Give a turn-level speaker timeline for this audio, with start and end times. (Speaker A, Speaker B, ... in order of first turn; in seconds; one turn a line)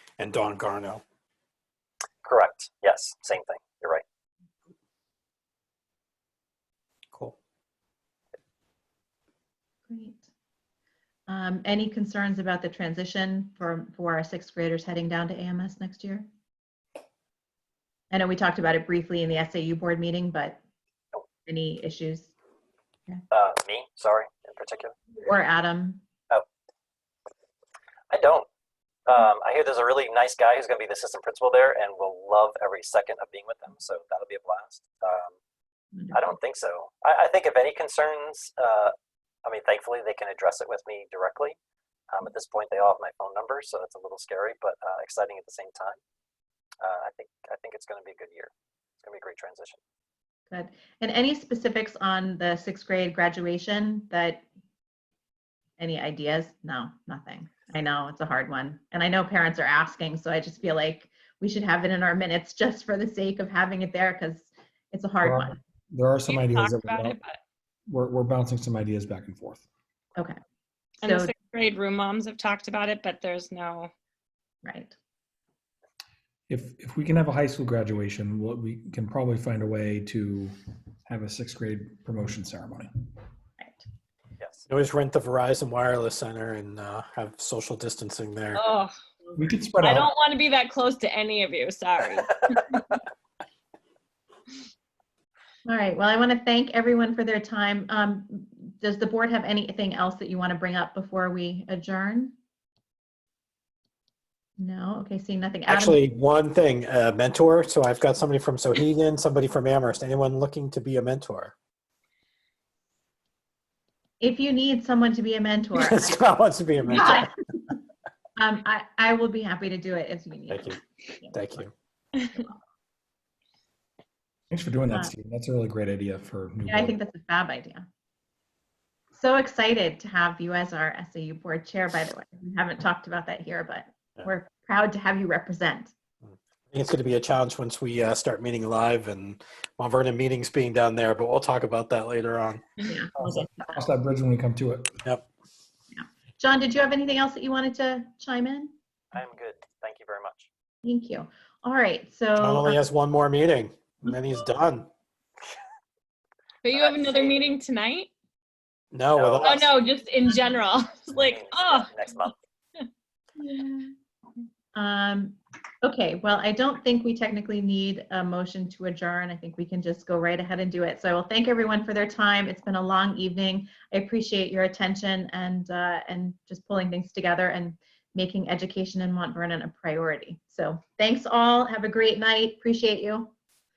Speaker A: 0.2-1.0
Speaker B: 2.2-4.0
Speaker C: 9.9-10.3
Speaker C: 11.3-16.3
Speaker C: 18.1-20.6
Speaker C: 21.5-22.3
Speaker B: 23.3-24.9
Speaker C: 25.2-26.0
Speaker B: 28.1-28.5
Speaker B: 29.1-35.4
Speaker B: 36.1-38.9
Speaker B: 39.5-41.6
Speaker B: 42.1-46.0
Speaker B: 46.8-49.8
Speaker C: 50.5-54.4
Speaker C: 55.8-65.6
Speaker D: 65.2-67.2
Speaker E: 66.3-67.4
Speaker D: 67.9-69.6
Speaker E: 71.0-73.9
Speaker C: 71.0-71.3
Speaker C: 74.6-75.0
Speaker D: 76.5-80.5
Speaker D: 81.1-82.9
Speaker C: 83.6-83.8
Speaker B: 84.4-84.7
Speaker A: 84.7-88.6
Speaker E: 88.5-88.9
Speaker D: 89.4-90.1
Speaker E: 89.8-92.9
Speaker C: 95.7-102.4
Speaker C: 104.6-106.0
Speaker A: 105.7-111.5
Speaker C: 114.2-116.2
Speaker A: 115.8-117.3
Speaker C: 116.9-117.7
Speaker C: 118.4-121.6
Speaker A: 120.5-121.7
Speaker D: 124.5-127.0
Speaker C: 126.7-127.9
Speaker C: 129.1-135.9
Speaker A: 136.7-142.6
Speaker E: 142.8-143.5
Speaker C: 142.9-143.8
Speaker D: 143.2-145.0
Speaker C: 145.9-148.7
Speaker B: 149.1-150.5
Speaker C: 150.8-152.8
Speaker A: 152.4-154.9
Speaker E: 156.6-158.1
Speaker B: 156.7-157.4
Speaker A: 158.9-159.7
Speaker B: 159.1-159.6
Speaker E: 159.4-161.9
Speaker B: 161.1-162.4
Speaker C: 163.4-163.9
Speaker C: 164.8-183.3